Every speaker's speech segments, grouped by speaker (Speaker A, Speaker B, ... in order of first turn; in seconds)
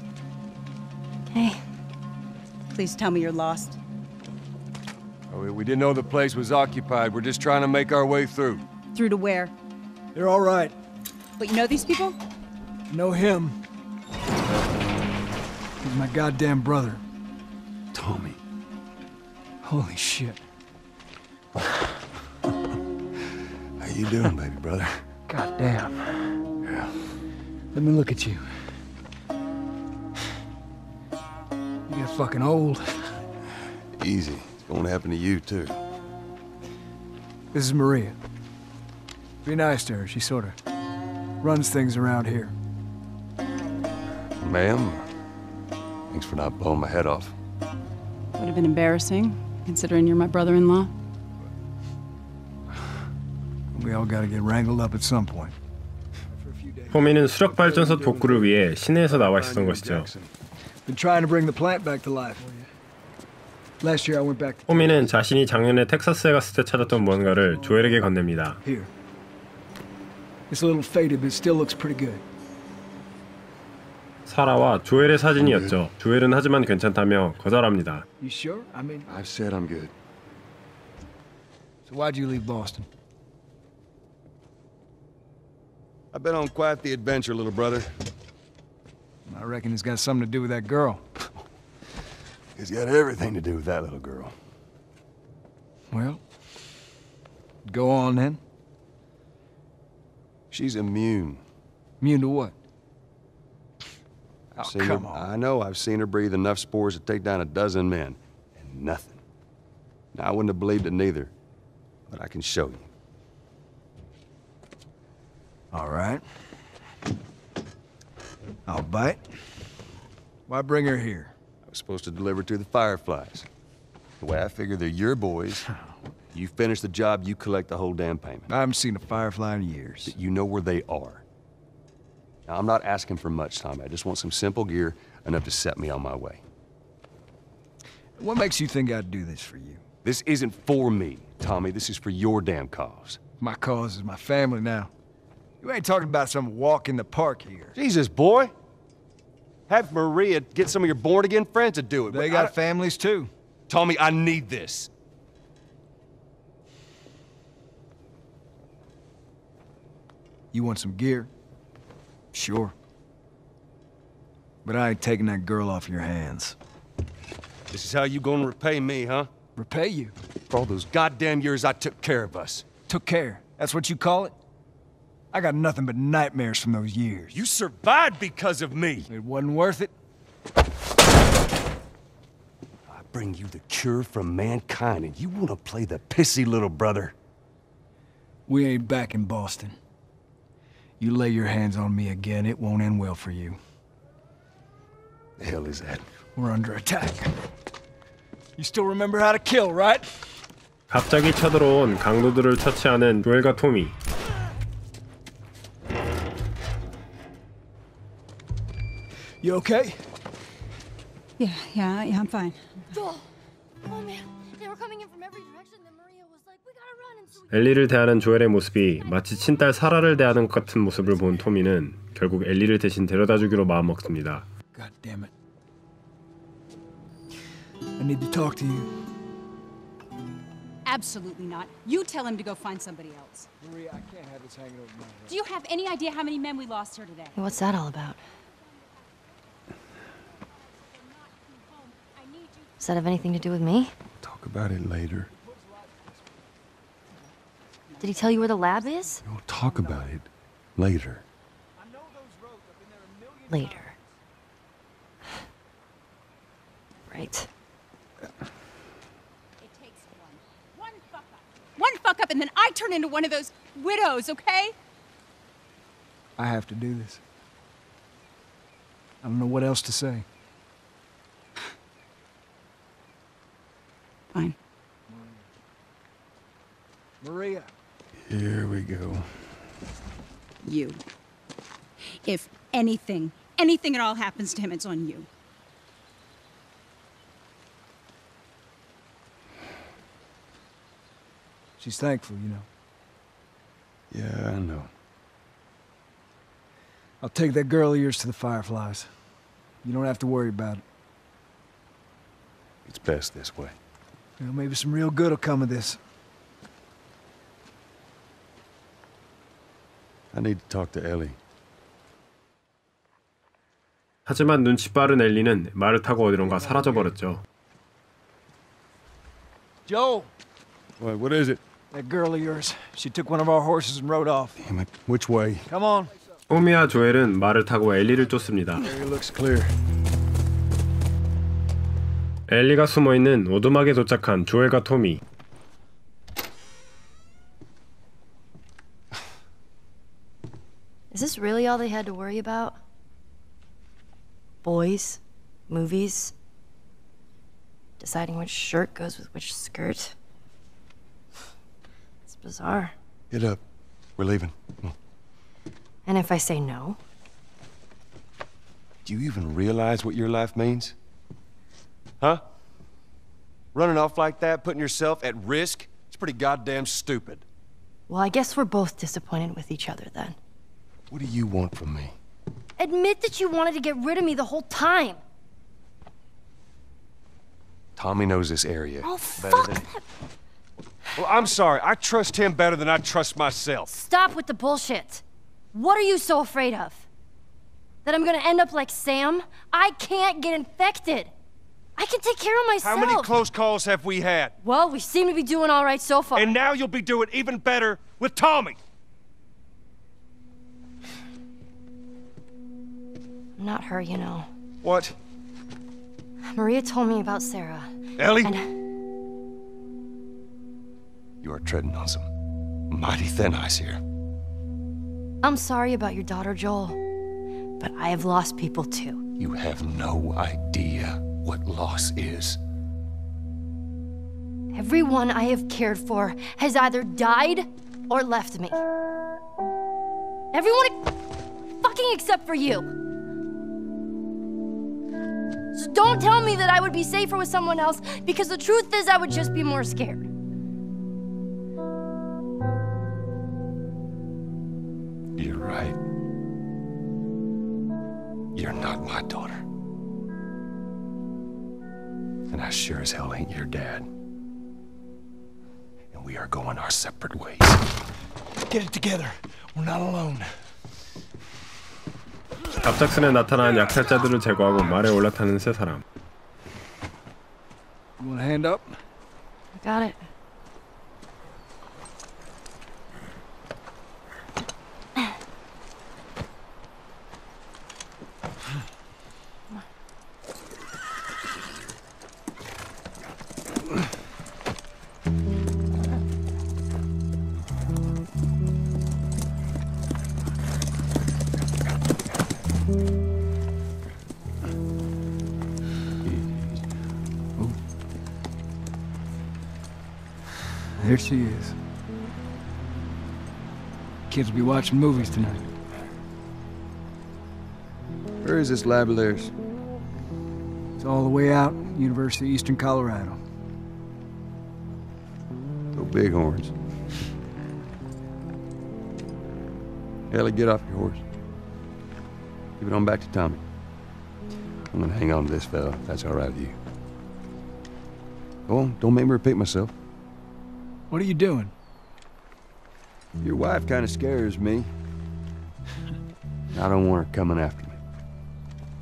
Speaker A: 1.3-1.6, 212.9-213.2, 213.8-217.9, 237.3-238.2, 242.8-243.9, 248.0-249.2, 253.5-253.9, 257.1-257.5, 341.1-342.8, 344.6-346.3, 348.0-350.1, 352.3-352.9, 356.1-357.0, 368.1-370.4, 372.8-375.2, 379.0-380.0, 383.9-387.1, 388.0-391.3, 392.0-393.4, 394.6-396.6, 403.6-404.5, 406.5-408.7, 415.4-417.0, 417.8-419.2, 424.7-428.8, 430.5-431.0, 431.8-432.9, 435.7-440.3, 469.8-470.2
Speaker B: 2.7-3.8, 8.9-9.5, 11.4-12.2, 48.4-50.9, 211.4-212.6, 230.8-233.5, 235.3-237.4, 242.0-242.6, 248.1-249.2, 259.6-264.7, 280.6-281.0, 282.1-285.3
Speaker C: 5.3-8.6, 17.9-18.4, 23.8-25.1, 26.6-27.0, 33.9-35.8, 44.4-45.1, 46.1-47.3, 59.1-60.3, 75.4-75.8, 79.1-79.9, 86.1-87.9, 92.5-94.3, 100.5-101.4, 104.5-109.2, 110.1-111.3, 112.1-112.9, 121.6-123.5, 124.2-125.7, 126.3-128.5, 130.0-131.2, 132.5-136.4, 140.0-143.2, 147.8-148.5, 149.7-152.6, 153.7-154.9, 167.7-169.3, 170.5-172.7, 177.3-179.1, 182.9-187.1, 195.4-196.1, 244.2-245.3, 249.2-251.2, 278.2-279.5, 294.1-294.9, 302.9-303.8, 310.3-311.4, 321.0-321.6, 324.6-325.7, 328.8-329.7, 353.3-353.6, 354.2-354.9, 359.0-360.9, 363.7-367.4, 371.1-372.1, 377.9-379.9, 381.1-383.9, 392.8-394.5, 396.4-398.8, 404.8-405.1, 408.2-408.5, 411.4-412.3, 412.9-414.0, 419.4-422.6, 445.4-446.0, 448.5-449.6, 452.5-454.1, 456.1-457.8, 458.7-460.5, 496.2-496.6, 508.4-509.5, 515.9-516.7, 520.3-521.2, 522.8-523.6, 524.9-526.8, 528.7-529.9, 533.4-534.9, 536.7-538.0
Speaker D: 10.1-10.7, 12.9-13.6, 15.8-17.0, 19.6-20.4, 25.3-26.3, 27.7-28.5, 31.9-33.2, 37.5-38.1, 39.4-40.6, 41.4-42.5, 53.7-55.5, 56.3-58.5, 60.9-62.6, 63.8-65.1, 66.8-68.0, 68.6-68.9, 70.5-72.2, 78.2-79.1, 81.9-82.8, 89.3-91.0, 95.9-96.2, 97.7-98.4, 102.0-102.5, 104.6-105.2, 115.7-116.2, 118.7-119.2, 120.5-121.3, 128.5-130.1, 138.2-139.8, 143.4-144.9, 145.6-147.8, 152.1-153.3, 160.5-161.3, 162.3-162.7, 164.6-166.6, 169.6-170.1, 172.9-174.3, 175.3-177.3, 179.1-179.9, 188.5-189.8, 191.0-193.6, 196.3-197.3, 198.6-200.2, 209.4-210.0, 224.7-225.3, 228.0-228.9, 233.6-235.4, 245.4-246.0, 249.6-250.0, 251.8-253.9, 266.4-267.2, 269.2-270.2, 275.1-275.4, 277.2-277.7, 291.8-292.7, 297.2-299.1, 299.8-300.8, 304.4-306.0, 316.5-317.1, 319.9-320.3, 321.9-324.6, 325.7-326.3, 468.2-468.9, 501.0-501.8, 504.3-505.6, 511.0-513.4, 531.1-531.7
Speaker E: 56.9-60.1, 64.7-68.6, 74.3-78.0, 200.9-203.9, 217.5-224.4, 314.2-317.4, 326.5-328.9, 332.5-335.2, 462.8-466.0